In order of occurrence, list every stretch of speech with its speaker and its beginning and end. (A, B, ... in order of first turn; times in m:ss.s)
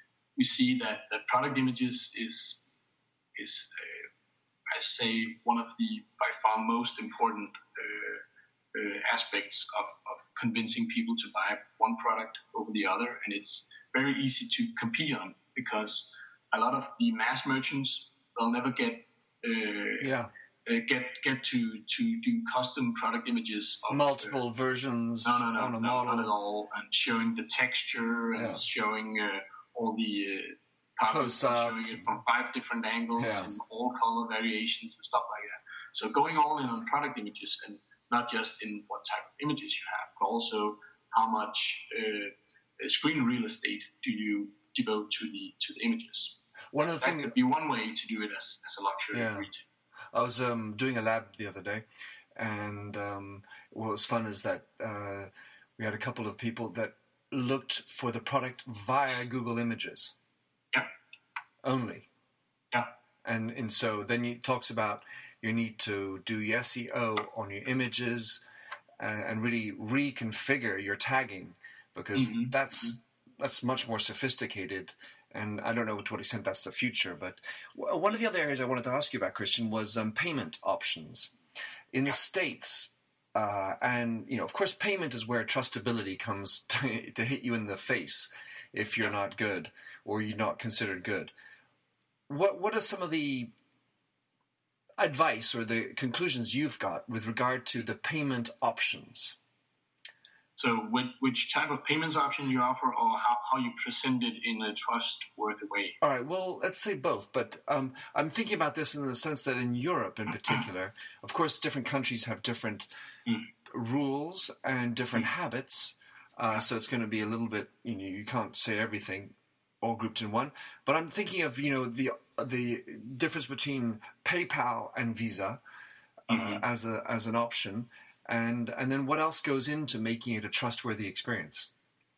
0:00.4-0:02.6 A
0:03.4-0:04.1 A
0:04.7-0:08.2 A
0:08.7-0:20.1 A
0:20.0-0:20.3 B
0:20.7-0:24.3 A
0:23.9-0:26.3 B
0:25.2-0:46.4 A
0:28.4-0:28.6 B
0:31.1-0:32.0 B
0:33.2-0:33.5 B
0:46.7-0:47.4 B
0:47.0-0:49.7 A
0:49.1-0:49.5 B
0:50.1-0:51.8 B
0:52.4-1:00.2 B
1:01.6-1:02.1 B
1:03.2-1:08.4 B
1:09.0-1:21.3 B
1:12.2-1:12.6 A
1:21.9-1:31.3 B
1:32.3-1:33.5 B
1:35.0-1:39.4 B
1:40.6-1:46.0 A
1:46.0-1:52.9 B
1:53.7-2:05.6 B
2:06.3-2:06.6 A
2:06.3-2:11.7 B